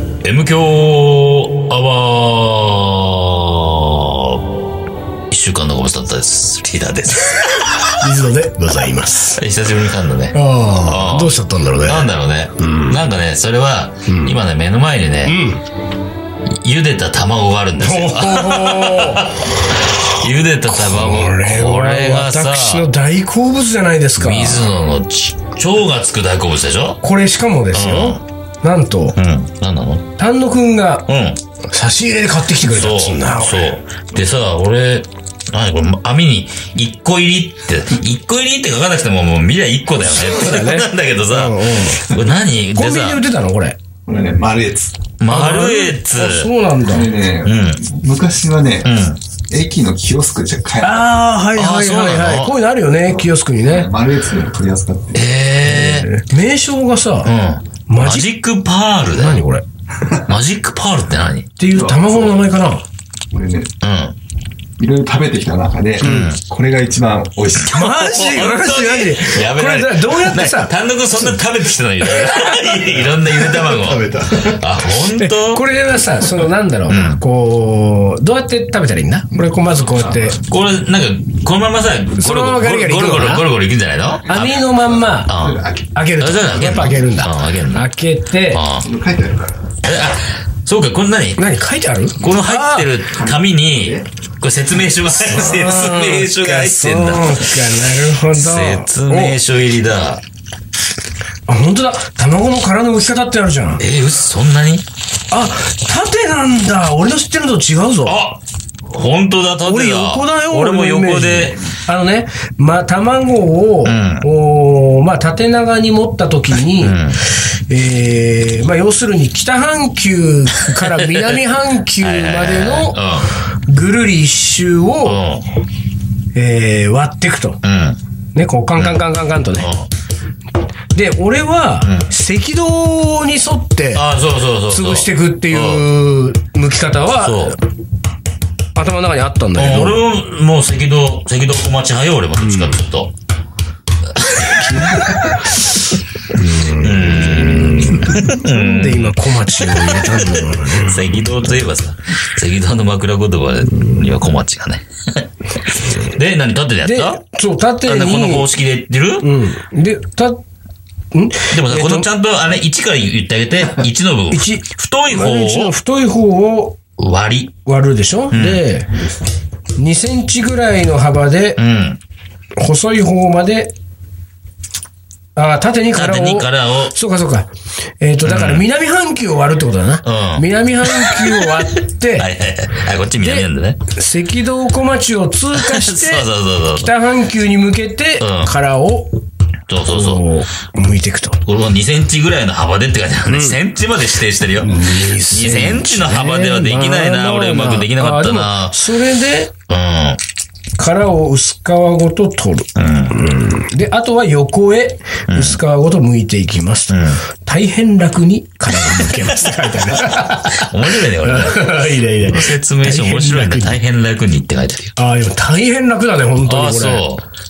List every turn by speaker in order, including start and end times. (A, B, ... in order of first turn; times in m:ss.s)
0:00.2-0:04.5 A
0:05.3-0:07.9 A
0:07.4-0:09.4 B
0:09.3-0:15.4 A
0:10.3-0:13.0 B
0:14.1-0:14.4 B
0:15.2-0:15.6 B
0:16.5-0:22.9 A
0:17.8-0:19.4 B
0:20.1-0:24.7 B
0:24.2-0:27.0 A
0:27.0-0:29.2 B
0:27.7-0:28.2 A
0:29.2-0:30.1 A
0:30.2-0:31.1 B
0:31.1-0:31.4 A
0:31.7-0:33.7 B
0:32.6-0:43.2 A
0:40.1-0:42.1 B
0:42.8-0:43.8 B
0:44.1-0:45.0 C
0:45.2-0:46.5 A
0:45.3-0:47.1 B
0:46.9-0:51.1 C
0:47.4-0:47.8 A
0:48.8-0:49.2 A
0:50.8-0:53.9 B
0:51.6-0:52.6 A
0:53.6-0:55.2 C
0:55.1-0:56.1 A
0:55.6-0:57.3 B
0:57.2-0:59.4 A
0:57.9-0:58.3 B
0:59.0-0:59.6 B
1:00.3-1:01.5 A
1:01.6-1:02.8 B
1:01.7-1:02.5 C
1:03.3-1:03.7 C
1:03.8-1:04.2 A
1:04.8-1:07.8 C
1:06.0-1:06.3 B
1:06.0-1:06.4 A
1:07.6-1:15.6 A
1:07.7-1:11.4 B
1:13.0-1:14.6 C
1:14.9-1:20.4 B
1:16.9-1:17.2 A
1:20.4-1:24.6 A
1:22.2-1:23.4 B
1:24.3-1:25.3 B
1:24.3-1:25.9 C
1:25.3-1:25.6 A
1:25.9-1:28.6 B
1:26.2-1:27.9 A
1:28.5-1:28.9 A
1:28.8-1:29.5 C
1:29.8-1:31.4 A
1:31.4-1:33.0 B
1:32.2-1:40.2 A
1:33.1-1:34.1 C
1:35.2-1:39.4 B
1:41.5-1:43.8 B
1:43.8-1:44.8 A
1:45.3-1:48.2 B
1:48.1-1:51.6 A
1:49.6-2:05.2 B
1:53.8-1:54.3 A
1:56.8-1:57.2 A
2:00.6-2:01.4 A
2:02.0-2:03.4 A
2:05.0-2:05.5 A
2:06.4-2:07.6 B
2:07.6-2:08.0 A
2:08.4-2:09.7 B
2:08.8-2:09.0 A
2:09.6-2:09.9 A
2:10.9-2:14.0 B
2:11.8-2:12.1 A
2:13.9-2:15.8 A
2:14.7-2:17.6 B
2:17.2-2:17.6 A
2:18.8-2:20.0 B
2:19.6-2:23.1 A
2:22.4-2:22.8 B
2:24.1-2:25.0 A
2:24.4-2:31.1 B
2:24.9-2:25.4 C
2:25.7-2:25.9 A
2:26.5-2:37.2 A
2:36.8-2:38.5 B
2:37.8-2:39.3 A
2:39.2-2:40.4 B
2:41.1-2:42.1 B
2:41.5-2:45.8 A
2:44.3-2:46.8 B
2:47.0-2:47.5 A
2:47.7-2:49.0 B
2:48.3-2:48.6 A
2:49.8-2:51.6 B
2:51.6-2:52.0 A
2:52.6-2:53.7 B
2:55.4-3:02.3 B
2:55.9-2:56.9 A
2:58.2-2:58.6 A
3:00.0-3:01.5 A
3:02.2-3:03.8 A
3:03.2-3:09.2 B
3:05.5-3:06.9 A
3:08.2-3:08.5 A
3:09.7-3:10.2 A
3:09.9-3:11.4 B
3:11.4-3:18.8 A
3:13.3-3:13.6 B
3:14.6-3:19.5 B
3:19.7-3:20.2 A
3:20.8-3:33.8 B
3:22.8-3:23.3 A
3:25.3-3:25.6 A
3:26.9-3:27.2 A
3:28.7-3:35.0 A
3:35.0-3:37.1 B
3:36.4-3:37.2 A